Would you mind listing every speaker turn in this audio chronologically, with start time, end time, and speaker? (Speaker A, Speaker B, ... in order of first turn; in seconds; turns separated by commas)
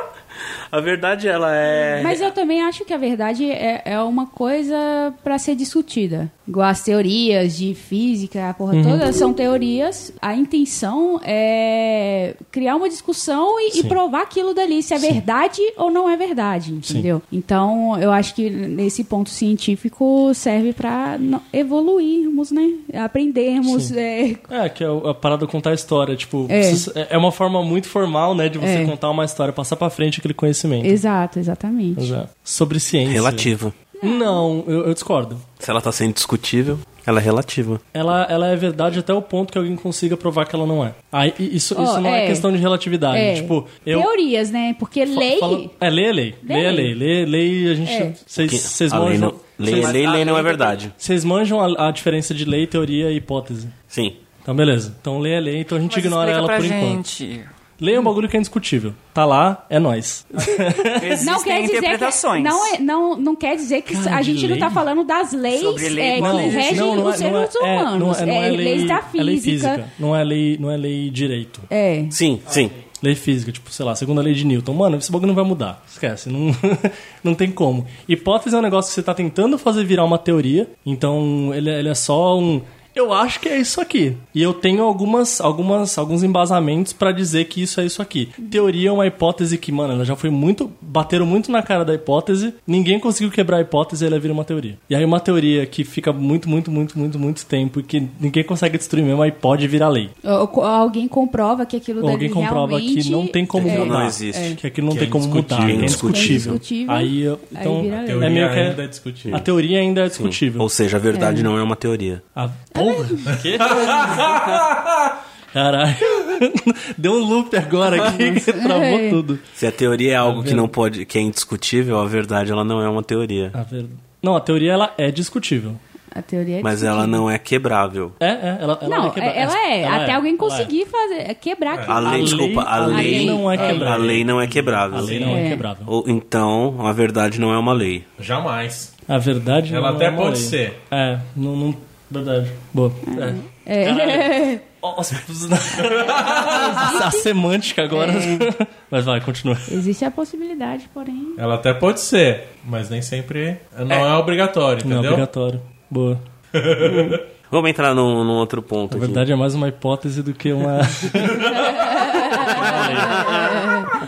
Speaker A: 0.7-2.3, Speaker B: 1.9-24.5, Speaker C: 8.7-9.1, Speaker C: 13.7-14.0, Speaker C: 16.8-17.1, Speaker C: 23.6-23.9, Speaker C: 24.5-31.0, Speaker B: 26.5-26.9, Speaker B: 28.6-28.9, Speaker B: 30.8-32.1, Speaker C: 31.9-35.4, Speaker A: 33.0-33.7, Speaker B: 33.9-34.5, Speaker A: 35.6-37.8, Speaker C: 37.9-44.1, Speaker B: 41.7-42.5, Speaker B: 43.1-45.7, Speaker C: 45.1-50.0, Speaker B: 46.4-47.0, Speaker B: 47.8-48.2, Speaker A: 48.4-50.9, Speaker D: 49.6-50.8, Speaker C: 51.0-53.7, Speaker A: 53.9-54.2, Speaker C: 54.4-57.0, Speaker D: 55.9-57.5, Speaker C: 57.8-61.2, Speaker D: 61.0-62.8, Speaker B: 61.1-69.8, Speaker C: 63.9-64.8, Speaker D: 65.5-67.2, Speaker C: 66.1-71.7, Speaker B: 71.7-72.1, Speaker A: 72.1-72.7, Speaker C: 72.9-100.1, Speaker B: 100.2-104.6, Speaker C: 102.0-110.7, Speaker A: 103.5-106.6, Speaker E: 105.6-106.0, Speaker B: 105.9-108.5, Speaker E: 107.9-109.5, Speaker A: 110.1-112.2, Speaker B: 111.1-111.5, Speaker C: 112.3-114.4, Speaker B: 112.7-113.3, Speaker E: 113.3-115.1, Speaker C: 115.5-119.4, Speaker B: 118.0-119.2, Speaker A: 119.6-123.5, Speaker C: 120.2-120.7, Speaker C: 123.5-125.8, Speaker B: 126.1-127.2, Speaker A: 126.6-128.2, Speaker C: 128.2-130.7, Speaker B: 128.8-133.8, Speaker E: 131.7-132.0, Speaker A: 131.9-138.1, Speaker C: 132.0-134.3, Speaker E: 133.7-135.2, Speaker C: 134.9-135.9, Speaker B: 135.2-135.7, Speaker E: 138.2-138.9, Speaker C: 139.1-149.8, Speaker E: 139.7-140.8, Speaker B: 143.0-144.7, Speaker E: 145.9-146.9, Speaker B: 146.2-147.3, Speaker B: 147.9-148.5, Speaker B: 149.7-151.4, Speaker E: 151.4-155.2, Speaker C: 154.8-156.2, Speaker E: 156.5-157.2, Speaker A: 157.5-159.2, Speaker C: 158.9-161.5, Speaker E: 161.1-162.7, Speaker B: 162.3-163.9, Speaker C: 162.4-163.4, Speaker A: 163.0-163.6